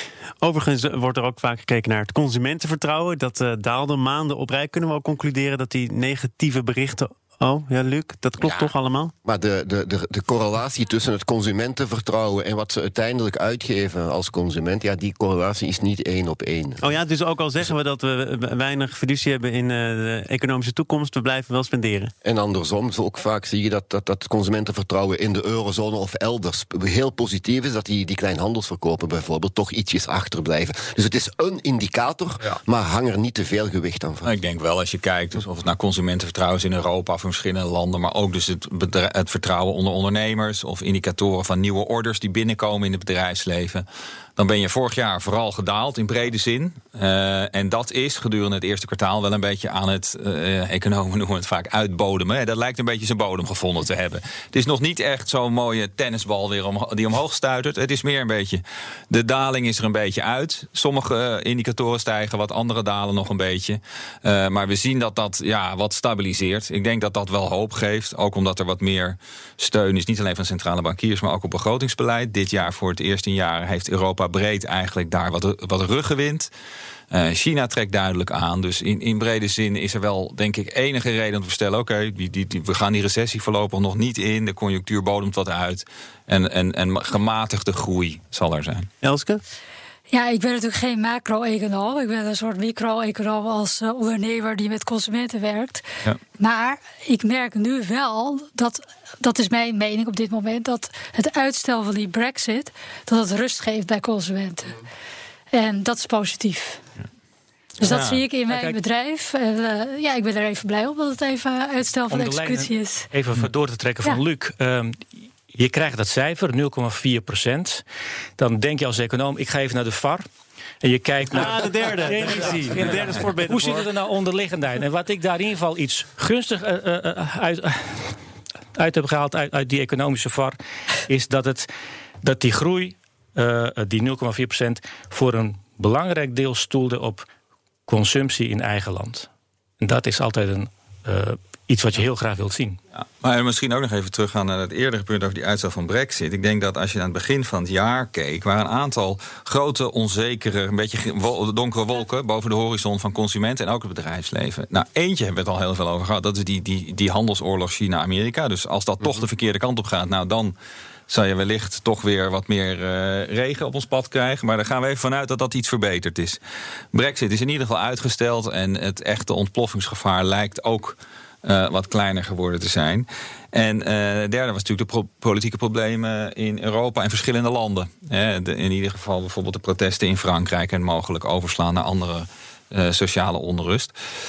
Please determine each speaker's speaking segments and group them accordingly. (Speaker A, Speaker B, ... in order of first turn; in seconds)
Speaker A: 0.4-9.1, 16.8-22.1, 89.0-89.4, 121.3-123.8
Speaker B: 8.4-8.7, 34.2-43.8, 44.4-76.5, 77.1-88.9, 107.8-108.2, 142.9-160.5, 161.1-166.4, 166.9-183.9
Speaker C: 9.2-16.9, 22.2-34.3
Speaker D: 90.1-95.8, 96.4-104.8, 105.5-106.8, 107.8-113.1
Speaker E: 108.5-108.8, 112.1-117.8, 118.4-120.2, 120.8-128.2, 128.7-130.6, 131.1-131.7, 132.2-137.3, 137.9-139.3, 139.8-142.8